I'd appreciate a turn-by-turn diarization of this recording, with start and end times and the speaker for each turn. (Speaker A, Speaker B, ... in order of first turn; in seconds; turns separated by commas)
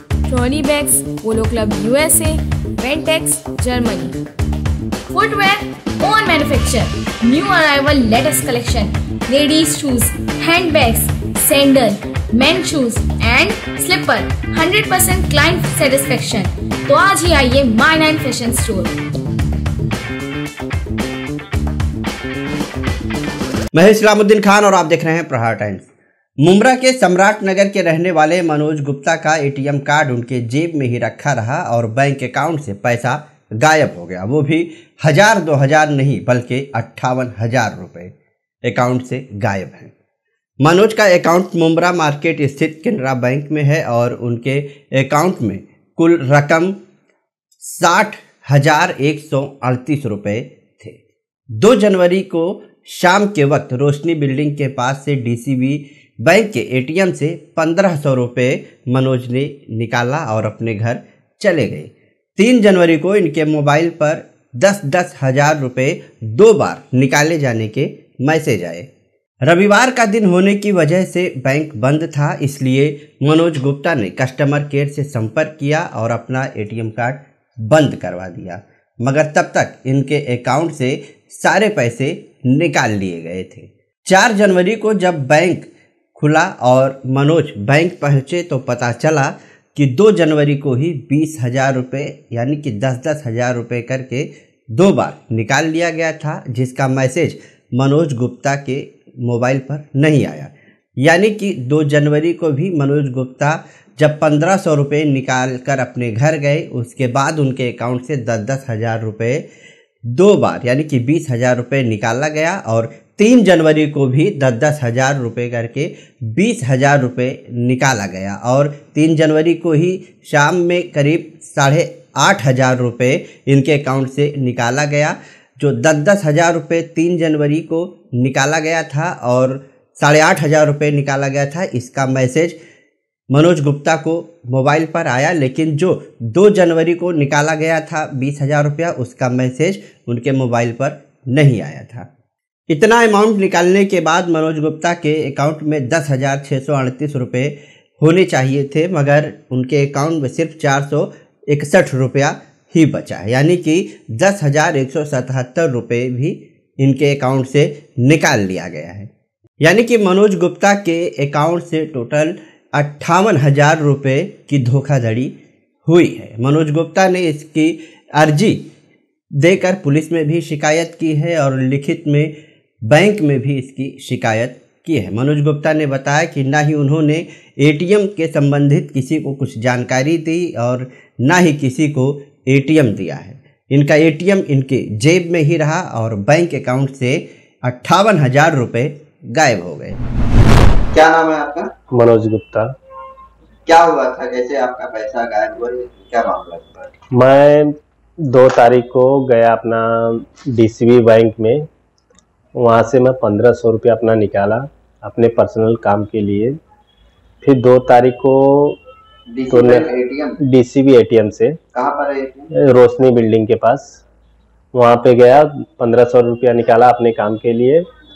Speaker A: 0.2-4.2, Speaker A: 5.1-18.9, Speaker B: 23.7-25.9, Speaker B: 26.4-38.1, Speaker B: 38.7-39.9, Speaker B: 40.6-46.8, Speaker B: 47.6-51.0, Speaker B: 51.6-68.9, Speaker B: 69.5-109.5, Speaker B: 110.1-132.6, Speaker B: 133.3-142.1, Speaker B: 142.7-165.3, Speaker B: 165.9-168.7, Speaker B: 169.4-172.3, Speaker B: 172.9-190.0, Speaker C: 190.9-191.7, Speaker D: 191.9-192.7, Speaker C: 193.7-196.9, Speaker D: 197.1-201.7, Speaker D: 202.6-206.6, Speaker D: 207.4-208.8, Speaker C: 209.3-210.4, Speaker D: 209.5-211.6, Speaker C: 211.7-212.5, Speaker D: 212.5-214.0, Speaker D: 214.7-217.8